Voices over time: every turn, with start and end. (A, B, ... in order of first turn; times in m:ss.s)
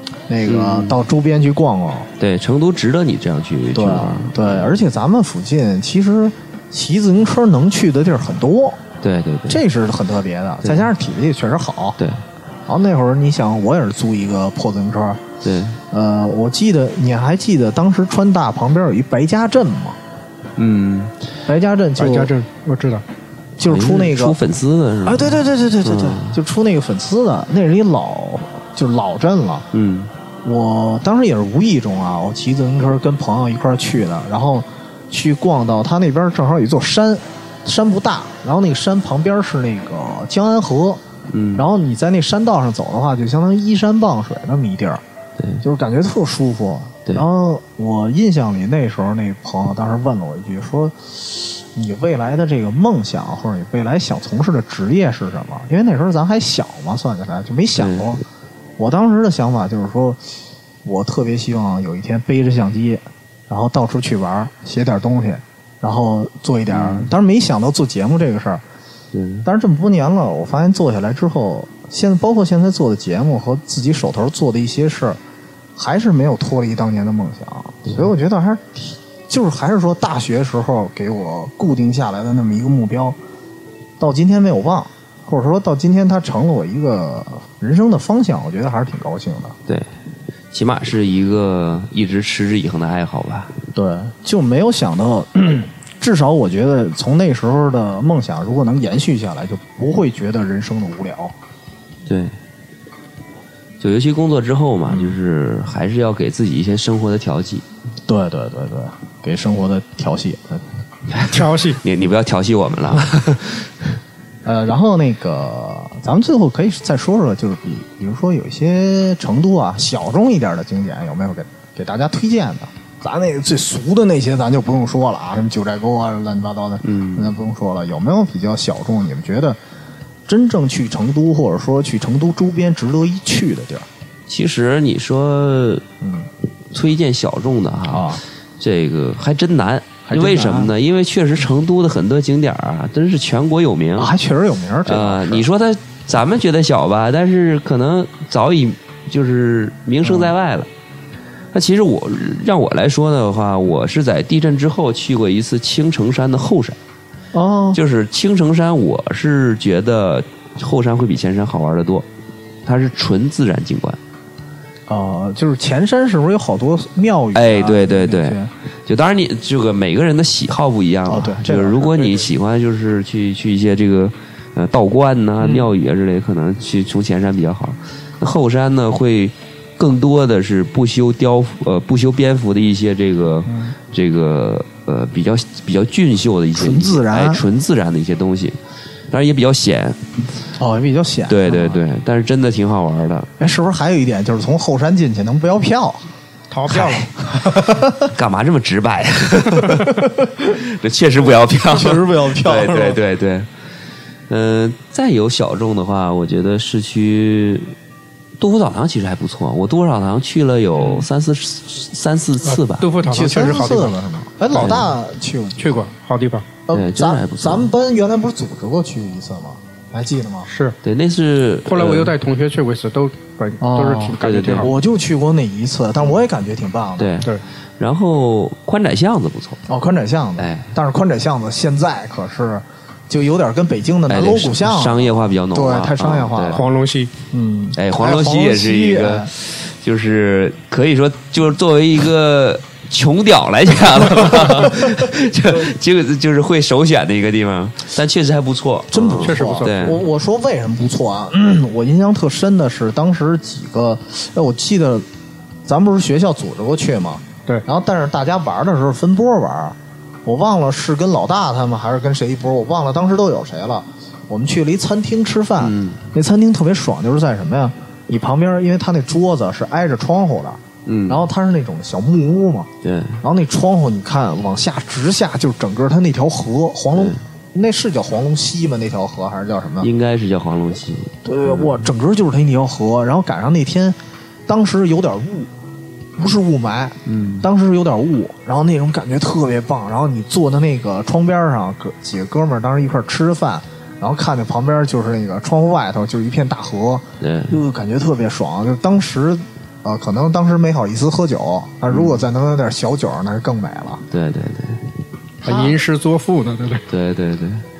0:00.3-0:02.1 A
0:00.4-0:01.0 B
0:02.2-0:04.8 B
0:03.7-0:08.8 A
0:09.0-0:09.6 B
0:09.5-0:12.0 A
0:10.6-0:10.9 B
0:12.0-0:12.2 B
0:12.7-0:15.2 A
0:15.4-0:15.8 B
0:15.9-0:20.0 A
0:20.6-0:21.1 B
0:21.4-0:22.3 A
0:22.0-0:23.0 C
0:23.6-0:24.4 A
0:23.6-0:26.4 B
0:25.0-0:29.7 A
0:29.7-0:30.1 B
0:30.4-0:41.0 A
0:41.3-0:41.6 B
0:41.5-0:45.0 A
0:45.6-0:58.2 A
0:57.8-0:58.2 B
0:58.8-1:00.3 A
1:00.8-1:08.6 A
1:06.7-1:07.1 B
1:09.1-1:09.4 B
1:09.4-1:15.2 A
1:15.8-1:23.2 A
1:24.0-1:29.6 A
1:30.5-1:33.5 B
1:33.7-1:41.3 A
1:42.0-1:42.3 B
1:43.8-1:47.6 B
1:44.8-1:45.2 A
1:48.1-1:50.6 A
1:51.1-1:54.0 B
1:51.3-1:51.8 C
1:54.4-2:09.6 A
2:06.8-2:07.3 B
2:10.2-2:13.9 A
2:14.3-2:15.8 B
2:16.0-2:16.3 A
2:16.7-2:24.1 B
2:17.9-2:18.2 A
2:20.0-2:20.7 A
2:24.0-2:25.5 A
2:24.8-2:30.7 B
2:30.0-2:30.3 A
2:31.5-2:36.8 B
2:37.3-2:37.8 A
2:37.7-2:42.1 B
2:42.6-2:44.0 B
2:44.9-2:48.5 A
2:47.3-3:08.6 B
2:51.1-2:52.3 A
2:55.4-2:55.7 A
3:03.4-3:03.8 A
3:06.5-3:07.4 A
3:09.1-3:10.1 B
3:10.6-3:11.8 A
3:11.3-3:13.3 B
3:13.4-3:16.0 A
3:16.5-3:17.1 C
3:17.3-3:18.1 A
3:18.1-3:20.0 B
3:19.9-3:20.3 A
3:20.6-3:23.5 B
3:21.7-3:23.0 A
3:24.3-3:27.7 B
3:28.4-3:32.9 B
3:32.4-3:33.9 C
3:33.0-3:35.9 A
3:34.5-3:34.8 C
3:34.6-3:34.9 B
3:35.6-3:36.4 C
3:36.7-3:40.5 A
3:36.7-3:37.7 B
3:40.5-3:40.8 C
3:40.8-3:42.1 B
3:41.7-3:44.7 C
3:43.6-3:47.2 A
3:44.2-3:44.7 B
3:47.0-3:49.6 B
3:49.7-3:56.7 A
3:50.4-3:50.7 B
3:54.1-3:56.6 B
3:56.6-3:57.1 C
3:57.3-3:59.3 A
3:57.8-4:10.0 B
4:04.2-4:04.7 A
4:08.9-4:15.0 A
4:09.2-4:10.0 C
4:15.6-4:32.7 A
4:25.6-4:26.1 B
4:30.8-4:31.3 B
4:32.8-4:33.2 B
4:33.2-4:39.9 A
4:36.9-4:37.2 B
4:39.8-4:41.9 B
4:41.2-4:45.5 A
4:46.2-5:04.0 A
4:47.0-4:47.5 B
4:57.2-4:57.6 B
5:01.9-5:02.2 B
5:04.1-5:04.8 B
5:05.4-5:05.8 A
5:05.4-5:06.8 C
5:06.9-5:07.6 B